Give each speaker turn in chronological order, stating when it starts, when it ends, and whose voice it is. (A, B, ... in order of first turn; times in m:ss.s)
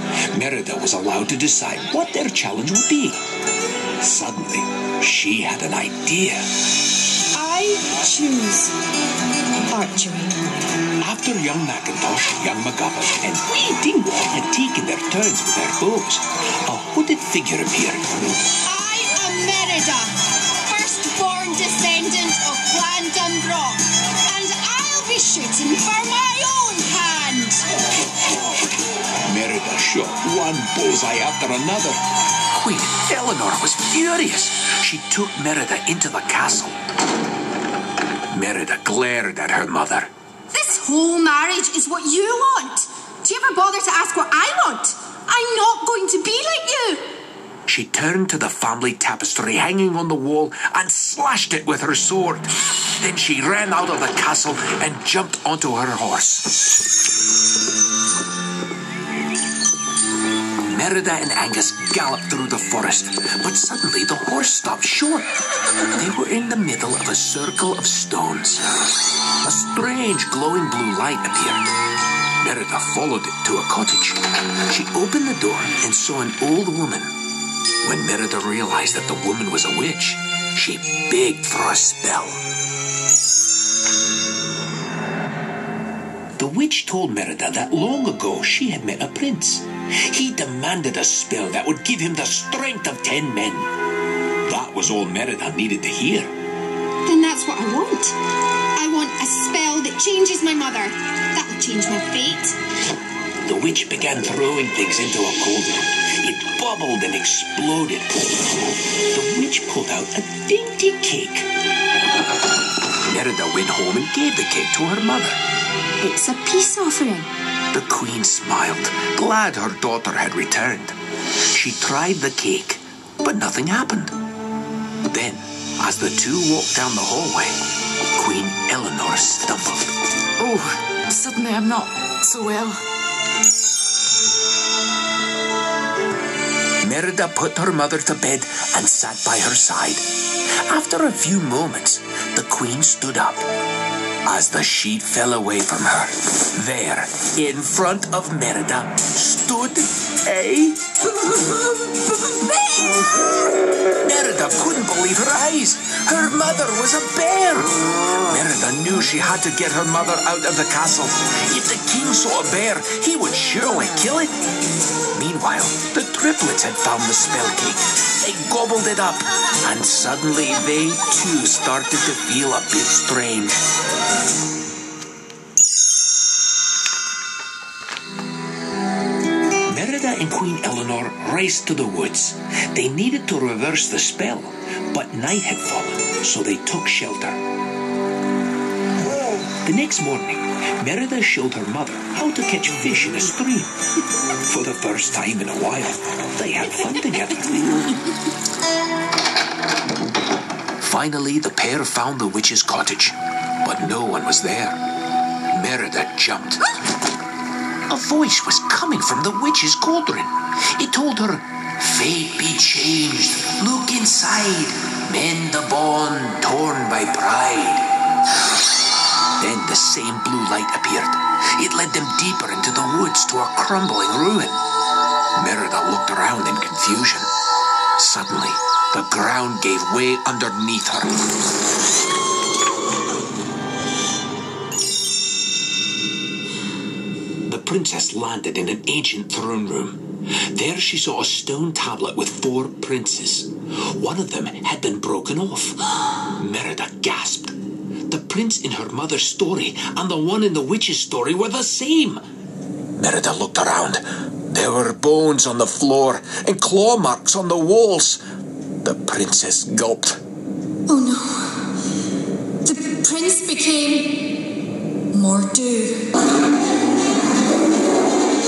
0:00.3-0:03.2 A
0:04.0-0:06.5 A
0:07.3-0:08.7 B
0:09.7-0:10.5 B
0:11.0-0:18.2 A
0:18.6-0:27.7 B
0:29.2-0:32.0 A
0:32.5-0:36.8 A
0:38.3-0:40.1 A
0:40.5-0:47.1 B
0:47.7-0:56.5 A
1:00.7-1:05.3 A
1:05.9-1:08.7 A
1:09.4-1:11.7 A
1:12.4-1:17.1 A
1:17.8-1:22.4 A
1:26.4-1:33.7 A
1:34.5-1:36.3 A
1:37.0-1:38.2 B
1:38.7-1:42.6 B
1:43.4-1:48.5 A
1:49.1-1:51.5 A
1:53.0-1:55.4 A
1:56.0-1:57.3 B
1:57.7-2:01.0 A
2:01.5-2:04.2 A
2:05.0-2:07.6 A
2:08.1-2:09.9 A
2:10.4-2:12.8 C
2:16.8-2:20.0 A
2:20.7-2:23.5 A
2:24.2-2:33.0 A
2:33.9-2:44.4 A
2:45.1-2:53.6 A
2:59.7-3:07.4 A
3:09.5-3:18.1 A
3:20.8-3:24.8 A
3:25.5-3:26.8 A
3:27.9-3:37.9 A
3:39.4-3:44.6 A
3:45.4-3:47.3 A
3:48.0-3:51.2 A
3:57.5-4:07.6 A
4:08.1-4:12.2 A
4:13.0-4:18.2 A
4:18.8-4:20.2 A
4:20.9-4:21.6 B
4:22.6-4:24.4 B
4:25.1-4:26.2 B